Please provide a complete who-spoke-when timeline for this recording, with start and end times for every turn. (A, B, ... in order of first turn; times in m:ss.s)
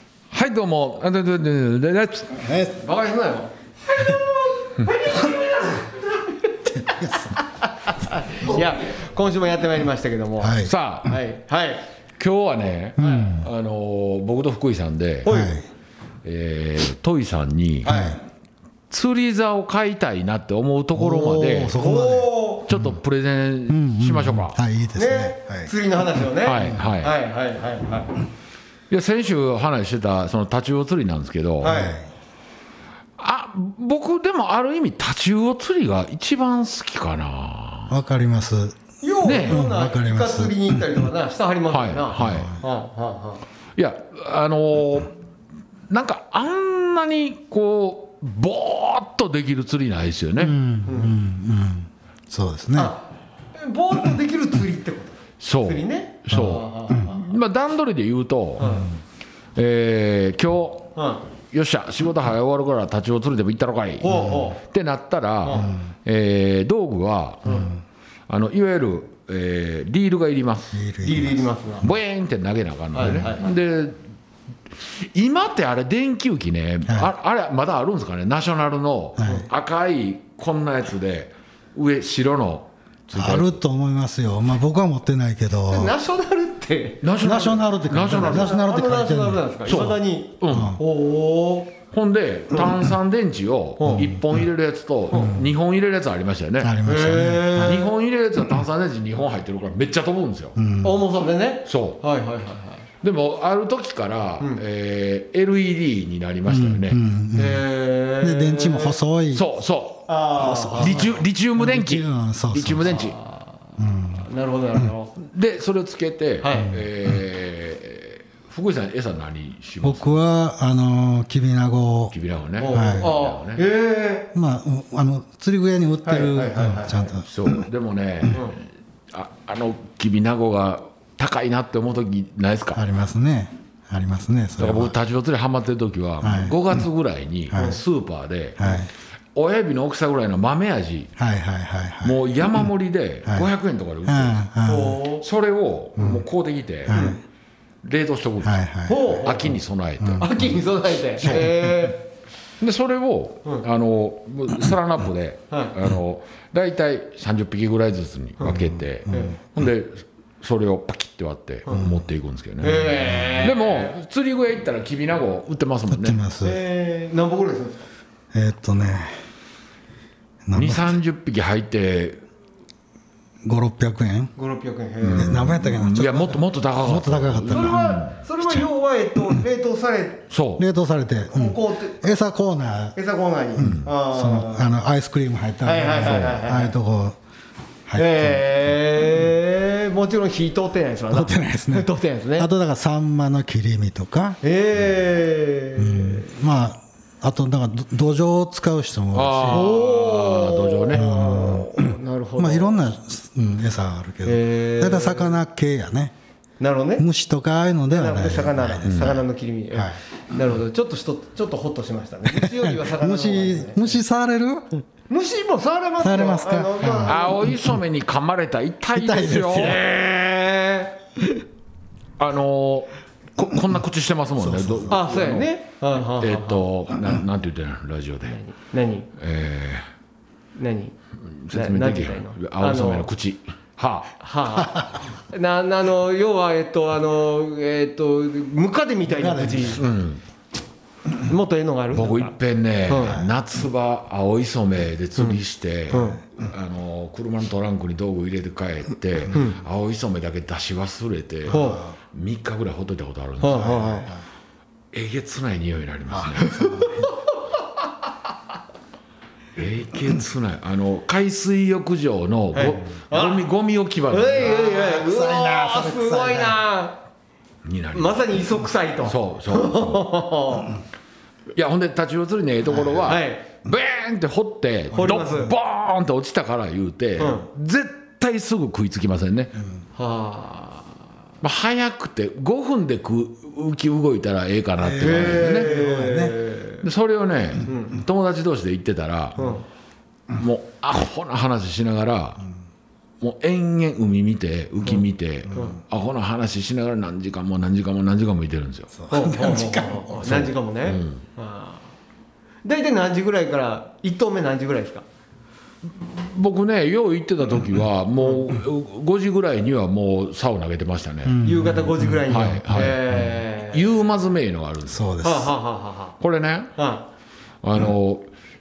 0:00.3-0:02.4 A
0:02.4-0:02.8 B
0:02.8-0:11.8 C
0:06.8-0:07.3 B
0:10.4-0:10.7 B
0:10.6-0:11.1 A
0:12.2-0:15.3 A
0:13.0-0:13.4 B
0:13.0-0:13.3 C
0:15.2-0:15.6 C
0:15.3-0:15.6 B
0:16.2-0:18.0 A
0:17.8-0:18.2 C
0:17.8-0:18.2 B
0:18.9-0:21.8 A
0:20.9-0:22.9 B
0:21.8-0:22.7 C
0:22.7-0:24.6 A
0:23.7-0:25.7 B
0:24.9-0:28.1 C
0:26.4-0:27.1 A
0:28.9-0:31.8 A
0:31.6-0:31.9 C
0:31.6-0:32.0 B
0:33.2-0:37.9 A
0:37.9-0:38.8 B
0:39.0-0:43.4 C
0:39.2-0:39.6 A
0:39.4-0:41.0 B
0:41.7-0:42.5 A
0:42.2-0:42.6 B
0:43.8-0:45.1 A
0:45.9-0:50.5 A
0:50.4-0:52.9 B
0:50.9-0:51.1 C
0:52.7-0:57.2 C
0:55.4-0:58.8 A
0:58.6-0:58.9 C
0:59.5-1:00.9 A
1:01.0-1:01.2 C
1:01.5-1:07.6 A
1:04.0-1:04.6 C
1:04.1-1:04.4 B
1:05.4-1:05.7 C
1:07.4-1:07.7 C
1:07.4-1:07.8 B
1:08.3-1:10.8 A
1:10.7-1:11.5 B
1:11.0-1:11.9 C
1:11.8-1:14.0 A
1:12.9-1:13.5 C
1:13.0-1:13.3 B
1:14.8-1:23.6 A
1:19.2-1:19.5 B
1:23.1-1:25.9 B
1:25.7-1:31.7 C
1:27.0-1:28.5 A
1:27.2-1:29.5 B
1:29.6-1:30.8 A
1:30.5-1:30.8 B
1:31.9-1:36.8 A
1:33.8-1:34.1 C
1:33.9-1:34.2 B
1:35.1-1:35.5 B
1:36.6-1:37.9 B
1:36.8-1:37.9 C
1:37.6-1:40.6 A
1:40.6-1:41.0 B
1:40.8-1:42.8 C
1:41.6-1:42.0 A
1:43.0-1:47.0 A
1:46.4-1:47.6 B
1:47.3-1:49.0 C
1:48.2-1:49.4 B
1:49.3-1:50.1 A
1:50.1-1:51.2 C
1:50.4-1:53.0 B
1:50.8-1:53.1 A
1:52.8-1:55.2 C
1:53.8-1:54.2 B
1:55.2-2:00.1 A
1:56.4-1:56.8 C
1:59.8-2:02.2 B
2:02.1-2:03.6 A
2:02.6-2:04.3 C
2:02.7-2:03.1 B
2:04.3-2:07.3 B
2:06.0-2:07.1 C
2:07.2-2:12.8 A
2:12.7-2:14.9 B
2:14.6-2:18.6 A
2:16.2-2:16.8 B
2:17.5-2:17.7 B
2:17.5-2:17.8 C
2:18.6-2:18.9 B
2:19.3-2:21.1 A
2:21.2-2:22.6 B
2:22.0-2:24.4 A
2:24.0-2:25.0 B
2:24.6-2:25.2 C
2:25.2-2:27.0 A
2:26.0-2:26.2 B
2:26.9-2:27.2 B
2:26.9-2:27.2 C
2:27.8-2:28.6 A
2:28.4-2:29.2 B
2:28.9-2:29.6 C
2:29.2-2:30.5 A
2:30.0-2:30.3 B
2:30.2-2:32.1 C
2:31.2-2:31.9 B
2:32.6-2:46.2 A
2:38.5-2:39.3 B
2:39.1-2:39.4 C
2:41.7-2:42.0 B
2:42.6-2:43.9 C
2:45.9-2:46.6 B
2:46.4-2:47.9 C
2:48.3-2:49.2 B
2:50.4-2:51.0 B
2:50.5-2:52.2 A
2:53.4-2:54.3 B
2:54.4-2:55.5 C
2:55.0-2:58.2 A
2:55.1-2:58.0 B
2:57.5-3:00.2 C
3:00.3-3:00.6 A
3:00.6-3:03.0 B
3:01.3-3:02.1 C
3:02.9-3:04.8 C
3:03.6-3:07.2 B
3:05.6-3:06.7 C
3:07.8-3:08.7 B
3:07.9-3:12.5 C
3:11.1-3:14.4 B
3:14.4-3:16.3 C
3:15.8-3:19.7 B
3:19.1-3:21.1 A
3:19.5-3:22.8 C
3:20.9-3:26.1 B
3:24.2-3:25.4 C
3:26.6-3:27.0 C
3:27.0-3:30.0 B
3:27.9-3:34.0 C
3:28.8-3:29.2 A
3:32.4-3:34.8 B
3:35.1-3:37.5 C
3:36.0-3:37.8 B
3:37.0-3:40.1 A
3:38.9-3:39.8 B
3:40.1-3:40.9 C
3:42.2-3:48.4 A
3:44.4-3:45.0 B
3:44.9-3:46.6 C
3:48.2-3:49.1 C
3:49.2-3:49.9 A
3:50.6-3:50.9 C
3:51.3-3:54.2 A
3:51.5-3:53.1 C
3:54.2-3:59.8 C
3:59.1-4:00.0 B
3:59.7-4:00.2 A
4:01.2-4:02.3 C
4:01.9-4:13.8 A
4:02.9-4:03.2 C
4:03.0-4:03.3 B
4:05.2-4:06.2 C
4:09.3-4:09.6 C
4:11.5-4:11.9 B
4:11.5-4:11.8 C
4:13.4-4:14.1 C
4:13.5-4:14.2 B
4:14.9-4:16.6 A
4:16.1-4:17.1 B
4:16.6-4:17.2 C
4:19.6-4:24.6 A
4:22.5-4:23.4 C
4:24.1-4:27.0 C
4:24.4-4:26.6 B
4:27.6-4:28.4 A
4:27.9-4:30.7 C
4:29.0-4:30.1 A
4:31.5-4:39.5 A
4:32.7-4:33.1 B
4:33.0-4:33.4 C
4:34.9-4:35.4 B
4:34.9-4:35.5 C
4:37.2-4:37.5 C
4:39.6-4:39.8 B
4:40.0-4:40.9 C
4:41.4-4:45.7 A
4:44.8-4:46.4 B
4:45.0-4:46.8 C
4:46.8-4:49.5 A
4:47.6-4:48.0 C
4:49.4-4:49.6 C
4:50.4-4:52.4 A
4:53.2-4:58.9 A
4:55.5-4:55.7 B
4:58.9-5:00.5 B
4:59.1-5:01.9 C
5:00.2-5:01.2 A
5:02.6-5:05.0 C
5:05.9-5:11.4 A
5:08.2-5:08.4 C
5:11.2-5:12.3 B
5:11.4-5:14.0 C
5:12.3-5:15.0 A
5:14.9-5:15.5 B
5:15.2-5:16.1 C
5:16.2-5:16.7 A
5:16.8-5:17.0 C
5:17.6-5:18.3 A